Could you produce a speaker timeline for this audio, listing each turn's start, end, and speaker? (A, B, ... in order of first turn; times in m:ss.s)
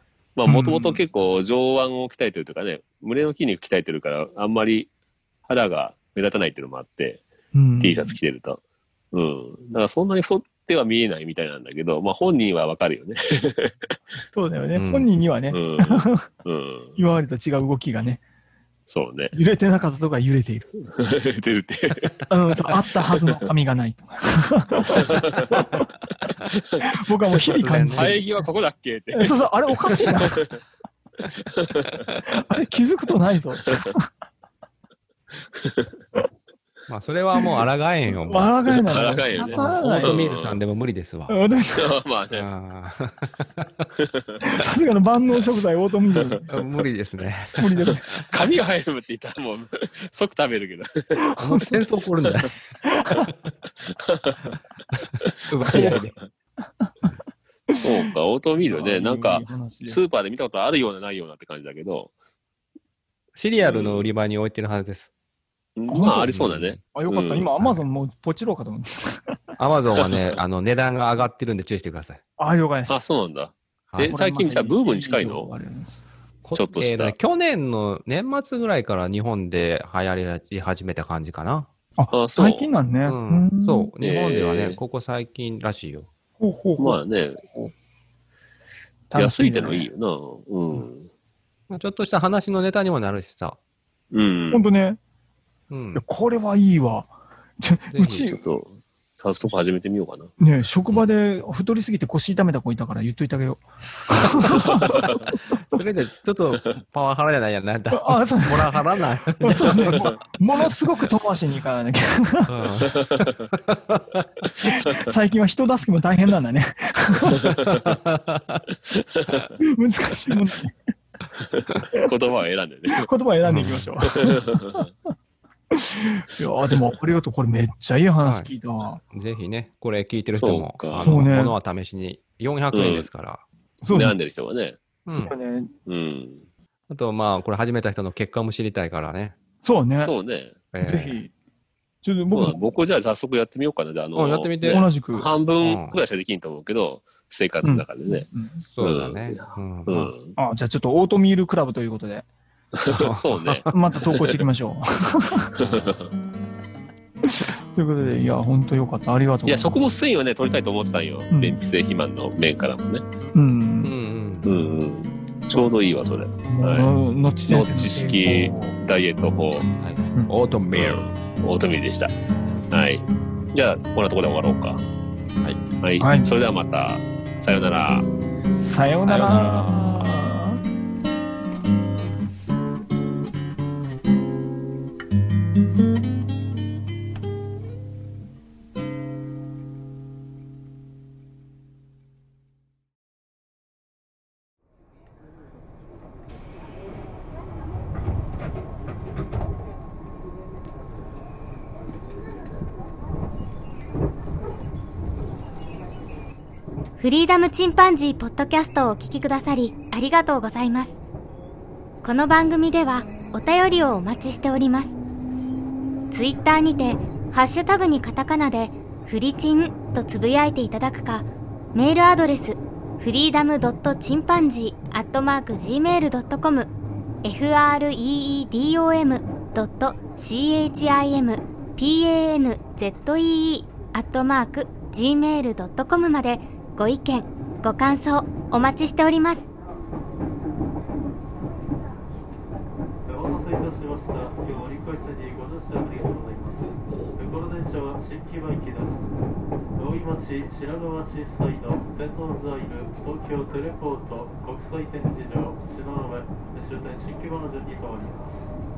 0:00.4-0:04.9 A
0:00.5-0:01.0 B
0:05.5-0:07.2 A
0:07.5-0:08.2 B
0:07.8-0:08.6 A
0:09.1-0:13.9 A
0:14.3-0:16.3 B
0:14.8-0:15.1 C
0:15.5-0:17.0 A
0:17.0-0:18.2 B
0:18.9-0:19.3 A
0:19.3-0:20.7 B
0:20.9-0:22.2 A
0:22.3-0:25.9 B
0:23.1-0:23.4 A
0:26.8-0:28.2 B
0:27.5-0:28.1 C
0:27.9-0:30.6 A
0:29.1-0:30.4 B
0:31.5-0:32.1 A
0:32.2-0:34.0 B
0:33.7-0:33.9 A
0:35.6-0:35.9 A
0:36.9-0:38.5 C
0:38.2-0:40.2 B
0:38.8-0:40.6 A
0:39.1-0:41.4 C
0:41.3-0:41.9 B
0:41.8-0:42.5 A
0:42.3-0:43.9 C
0:44.0-0:44.3 A
0:44.4-0:46.5 B
0:46.5-0:47.9 C
0:47.6-0:48.1 B
0:48.2-0:51.2 A
0:51.3-0:51.7 B
0:51.4-0:52.6 C
0:52.8-0:53.3 B
0:53.9-0:54.5 A
0:55.2-0:56.0 A
0:55.5-0:56.1 C
0:55.7-0:56.0 B
0:57.8-1:02.1 A
0:58.7-1:00.0 B
1:03.4-1:05.1 C
1:03.6-1:04.1 A
1:05.8-1:07.5 A
1:05.9-1:06.4 B
1:06.3-1:06.8 C
1:06.9-1:09.4 B
1:09.6-1:12.2 C
1:12.4-1:13.1 B
1:12.9-1:15.5 A
1:13.9-1:14.2 C
1:14.0-1:16.0 B
1:16.4-1:21.7 C
1:16.5-1:17.2 A
1:22.0-1:23.9 B
1:22.1-1:22.7 A
1:23.1-1:26.1 C
1:24.0-1:24.8 A
1:26.4-1:27.0 B
1:26.8-1:27.4 A
1:29.1-1:29.9 B
1:29.2-1:31.1 A
1:31.7-1:33.6 C
1:34.1-1:34.6 A
1:34.5-1:35.0 B
1:35.7-1:36.0 C
1:36.0-1:38.4 B
1:37.9-1:38.3 C
1:38.3-1:40.3 A
1:40.4-1:45.0 B
1:44.2-1:45.2 C
1:45.7-1:50.0 C
1:47.9-1:48.8 B
1:49.4-1:52.6 B
1:52.5-1:54.5 C
1:53.0-1:53.4 A
1:54.6-1:57.5 B
1:57.4-1:57.9 A
1:57.8-1:58.6 C
1:58.9-1:59.5 A
1:59.6-2:00.7 B
2:01.4-2:03.1 A
2:02.9-2:04.8 B
2:03.5-2:03.9 C
2:04.2-2:04.9 A
2:05.7-2:09.0 B
2:08.2-2:08.5 C
2:09.1-2:13.4 C
2:10.3-2:11.2 A
2:11.0-2:11.6 B
2:12.7-2:13.1 A
2:13.8-2:14.2 B
2:13.9-2:14.8 A
2:15.1-2:15.3 C
2:15.2-2:15.7 B
2:15.9-2:16.5 A
2:16.9-2:19.4 C
2:19.6-2:20.1 B
2:20.0-2:20.6 A
2:20.7-2:21.2 C
2:20.8-2:21.3 B
2:22.0-2:22.7 B
2:22.3-2:28.3 A
2:24.2-2:24.9 C
2:24.6-2:25.3 B
2:25.6-2:26.0 C
2:27.6-2:28.6 B
2:28.6-2:30.1 C
2:28.8-2:30.4 A
2:30.4-2:32.3 B
2:32.7-2:34.4 A
2:32.9-2:33.7 C
2:33.7-2:35.5 B
2:35.6-2:36.1 A
2:37.2-2:39.8 B
2:39.5-2:43.0 A
2:41.3-2:41.6 B
2:43.3-2:43.9 B
2:43.8-2:44.5 C
2:44.4-2:46.9 A
2:46.5-2:48.8 B
2:47.5-2:49.7 A
2:49.8-2:51.1 C
2:50.7-2:52.1 A
2:52.7-2:54.8 A
2:55.8-2:58.1 A
2:56.0-2:56.3 B
2:58.6-3:00.6 B
2:59.0-2:59.7 C
3:27.0-3:31.0 D
3:32.0-3:35.0 D
3:36.1-3:46.7 D
3:47.2-3:59.5 D
4:03.1-4:09.1 E
4:09.8-4:18.6 E